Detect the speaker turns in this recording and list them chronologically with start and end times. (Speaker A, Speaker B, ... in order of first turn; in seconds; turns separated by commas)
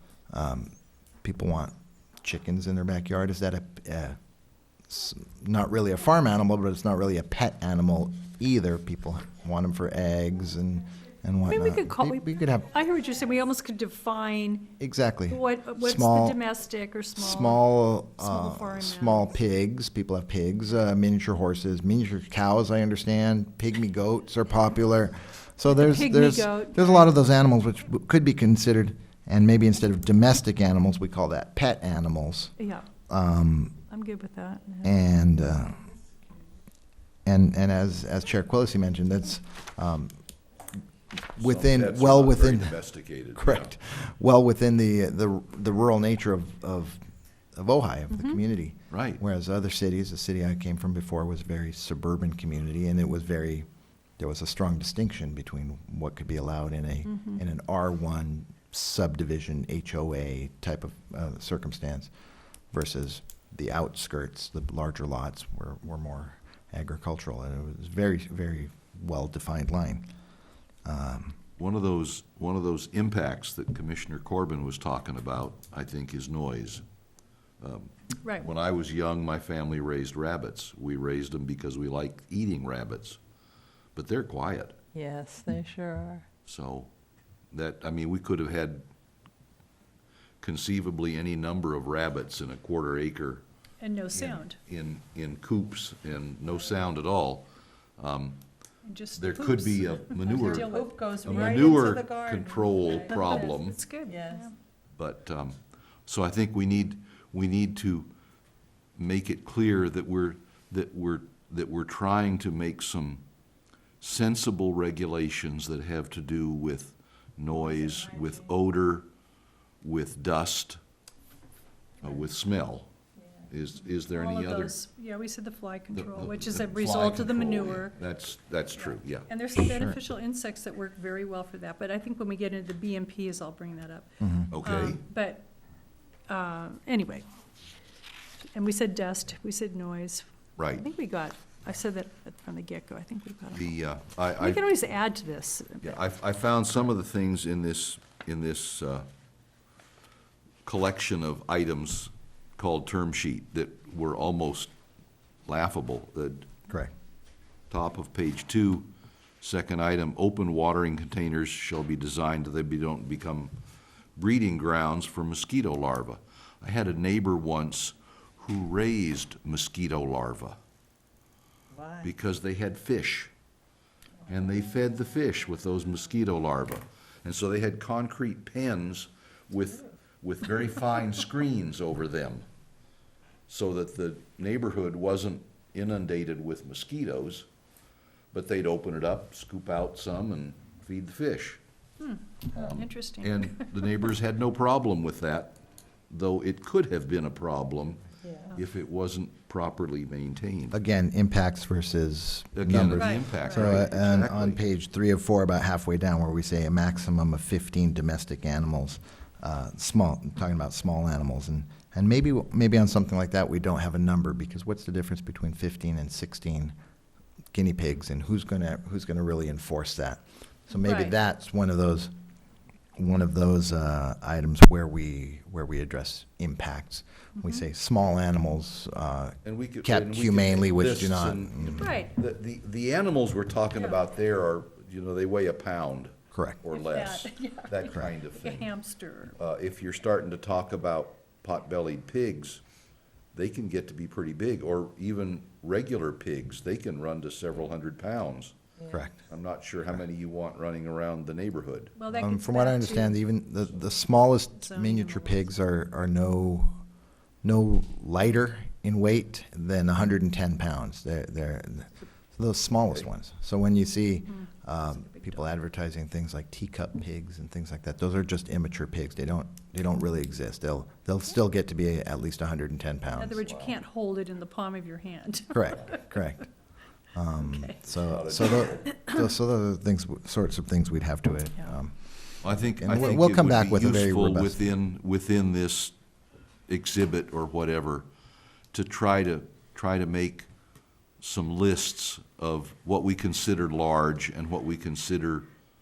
Speaker A: 0.3-4.2, Speaker A: 4.9-12.7, Speaker B: 11.5-14.7, Speaker A: 14.8-16.4, Speaker B: 15.3-19.4, Speaker A: 17.2-32.5, Speaker B: 25.7-27.2, Speaker B: 32.6-32.9, Speaker A: 33.1-33.8, Speaker B: 33.9-35.0, Speaker A: 34.8-35.9, Speaker A: 37.2-40.2, Speaker A: 41.4-42.8, Speaker C: 41.4-43.7, Speaker A: 43.4-47.0, Speaker A: 47.5-53.7, Speaker B: 48.1-48.4, Speaker C: 48.9-49.2, Speaker A: 54.2-62.1, Speaker B: 57.0-57.4, Speaker A: 62.7-70.0, Speaker A: 70.8-71.4, Speaker C: 71.6-76.8, Speaker C: 77.6-83.2, Speaker B: 78.2-78.5, Speaker C: 84.0-84.8, Speaker D: 84.9-86.3, Speaker C: 86.5-86.9, Speaker C: 87.5-88.9, Speaker C: 90.4-93.4, Speaker B: 93.8-94.6, Speaker C: 94.1-98.4, Speaker B: 98.8-101.9, Speaker C: 99.2-103.8, Speaker D: 100.3-103.5, Speaker B: 102.8-104.5, Speaker D: 104.1-104.5, Speaker C: 105.0-108.1, Speaker C: 109.0-113.2, Speaker C: 114.0-119.1, Speaker C: 119.8-120.8, Speaker C: 122.0-122.9, Speaker C: 123.5-124.8, Speaker B: 124.1-128.0, Speaker C: 125.9-129.3, Speaker B: 129.3-134.1, Speaker A: 129.6-130.0, Speaker A: 134.2-134.5, Speaker C: 134.5-135.0, Speaker B: 134.6-135.5, Speaker B: 136.3-137.3, Speaker B: 138.6-143.7, Speaker C: 140.6-140.8, Speaker C: 143.5-144.7, Speaker B: 144.4-146.0, Speaker C: 145.8-149.1, Speaker C: 150.7-154.7, Speaker C: 155.5-156.5, Speaker C: 157.7-158.9, Speaker C: 159.4-163.5, Speaker C: 164.2-170.6, Speaker D: 171.8-172.1, Speaker C: 172.0-173.3, Speaker C: 174.3-182.4, Speaker C: 183.5-187.5, Speaker C: 188.3-191.6, Speaker B: 192.0-193.7, Speaker C: 192.5-195.6, Speaker C: 196.1-198.0, Speaker D: 198.2-198.6, Speaker C: 198.6-200.8, Speaker A: 200.7-216.8, Speaker C: 202.6-204.6, Speaker B: 202.9-204.0, Speaker A: 217.5-222.1, Speaker B: 220.7-221.2, Speaker A: 223.0-231.9, Speaker B: 227.3-227.7, Speaker C: 229.4-238.7, Speaker B: 231.7-232.1, Speaker B: 233.8-234.0, Speaker A: 236.3-236.6, Speaker B: 236.7-239.3, Speaker C: 239.4-242.6, Speaker C: 243.3-248.6, Speaker C: 249.3-251.9, Speaker B: 252.0-253.2, Speaker A: 252.2-256.7, Speaker B: 254.6-255.5, Speaker A: 257.4-273.7, Speaker B: 264.3-265.4, Speaker B: 273.2-276.2, Speaker A: 275.5-276.5, Speaker A: 277.1-281.9, Speaker B: 277.4-277.8, Speaker C: 277.9-278.8, Speaker C: 282.4-285.9, Speaker A: 282.8-284.6, Speaker C: 286.7-288.1, Speaker C: 288.7-290.5, Speaker C: 291.2-295.5